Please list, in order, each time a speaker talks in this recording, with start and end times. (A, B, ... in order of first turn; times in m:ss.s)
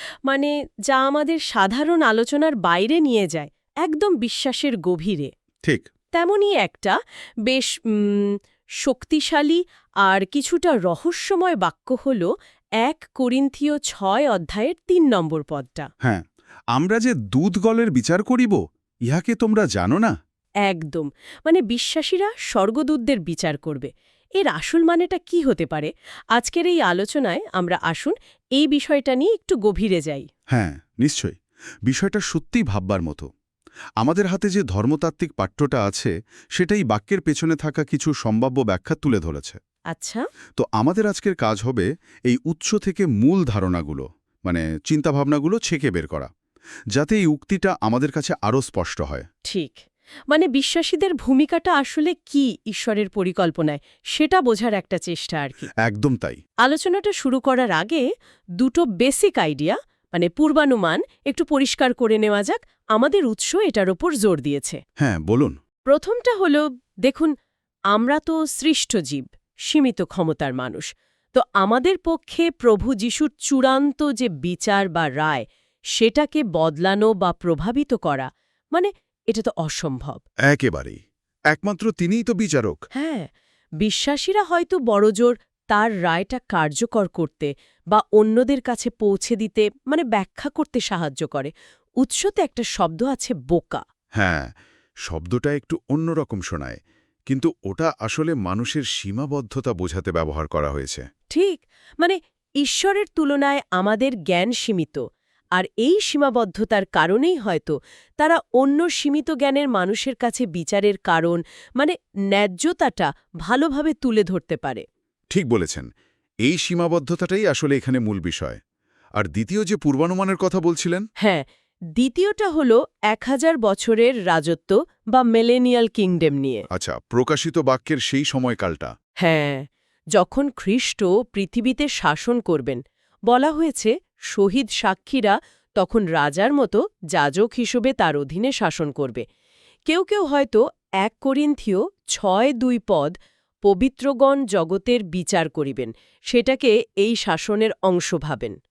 0:00.3-0:05.3 A
0:06.1-0:07.0 A
0:07.5-0:12.3 A
0:12.8-0:15.9 A
0:16.0-0:20.1 B
0:20.7-0:23.9 A
0:24.4-0:30.3 A
0:30.5-0:33.3 B
0:34.0-0:39.6 B
0:39.9-0:40.2 A
0:40.6-0:46.3 B
0:46.9-0:49.3 B
0:49.4-0:55.7 A
0:55.8-0:56.4 B
0:56.6-0:58.0 A
0:58.6-1:04.8 A
1:05.0-1:05.6 B
1:05.9-1:07.3 A
1:07.9-1:15.4 A
1:16.0-1:20.2 A
1:20.5-1:21.0 B
1:21.5-1:22.8 B
1:22.9-1:33.8 A
1:34.2-1:34.5 B
1:35.1-1:41.0 B
1:41.3-1:45.0 A
1:45.6-1:54.8 A
1:55.3-1:55.9 B
1:56.4-1:58.6 B
1:59.2-2:01.1 B
2:02.0-2:06.6 A
2:06.7-2:08.9 B
2:09.2-2:19.2 A
2:19.9-2:23.1 A
2:23.6-2:28.6 A